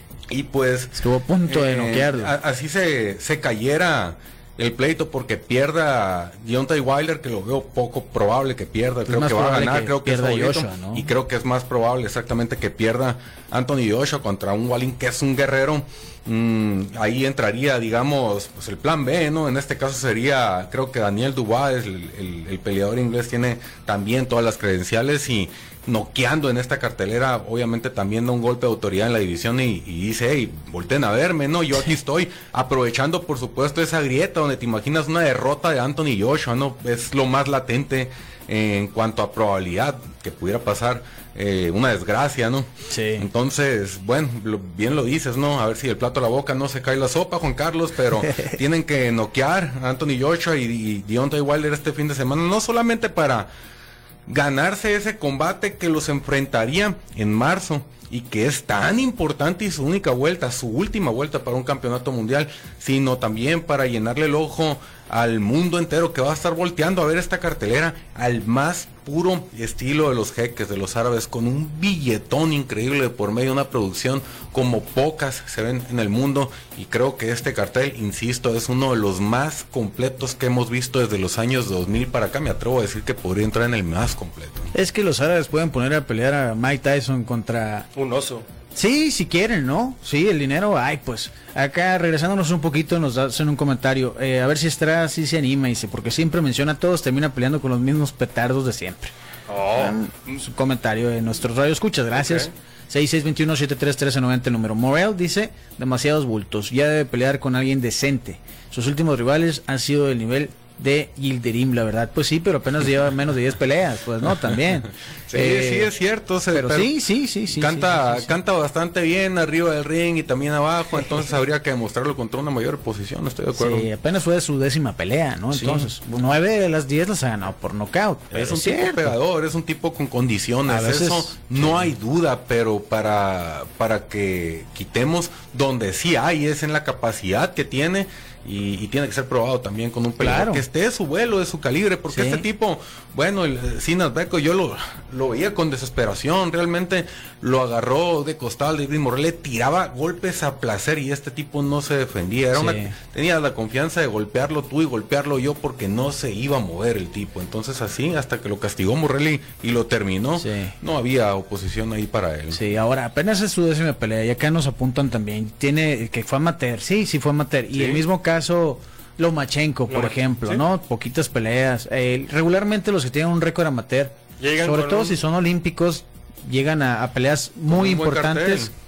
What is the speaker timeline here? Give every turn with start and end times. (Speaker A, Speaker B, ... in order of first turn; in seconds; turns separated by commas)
Speaker A: 0.3-53.5, Speaker B: 0.9-2.3, Speaker B: 9.1-11.1, Speaker B: 42.9-43.3, Speaker B: 48.2-48.6, Speaker A: 54.3-84.7, Speaker B: 84.7-87.9, Speaker C: 87.9-88.5, Speaker B: 88.7-99.1, Speaker C: 99.5-100.0, Speaker B: 99.7-115.9, Speaker C: 102.1-102.5, Speaker A: 115.3-116.9, Speaker B: 116.5-118.3, Speaker A: 117.5-123.9, Speaker B: 123.5-129.2, Speaker A: 125.5-125.9, Speaker A: 128.3-162.6, Speaker B: 130.7-131.9, Speaker B: 140.2-140.6, Speaker B: 142.1-142.4, Speaker B: 152.5-152.9, Speaker B: 160.4-160.7, Speaker B: 162.5-178.7, Speaker C: 167.7-168.0, Speaker C: 169.9-170.6, Speaker C: 174.4-175.2, Speaker A: 177.7-178.7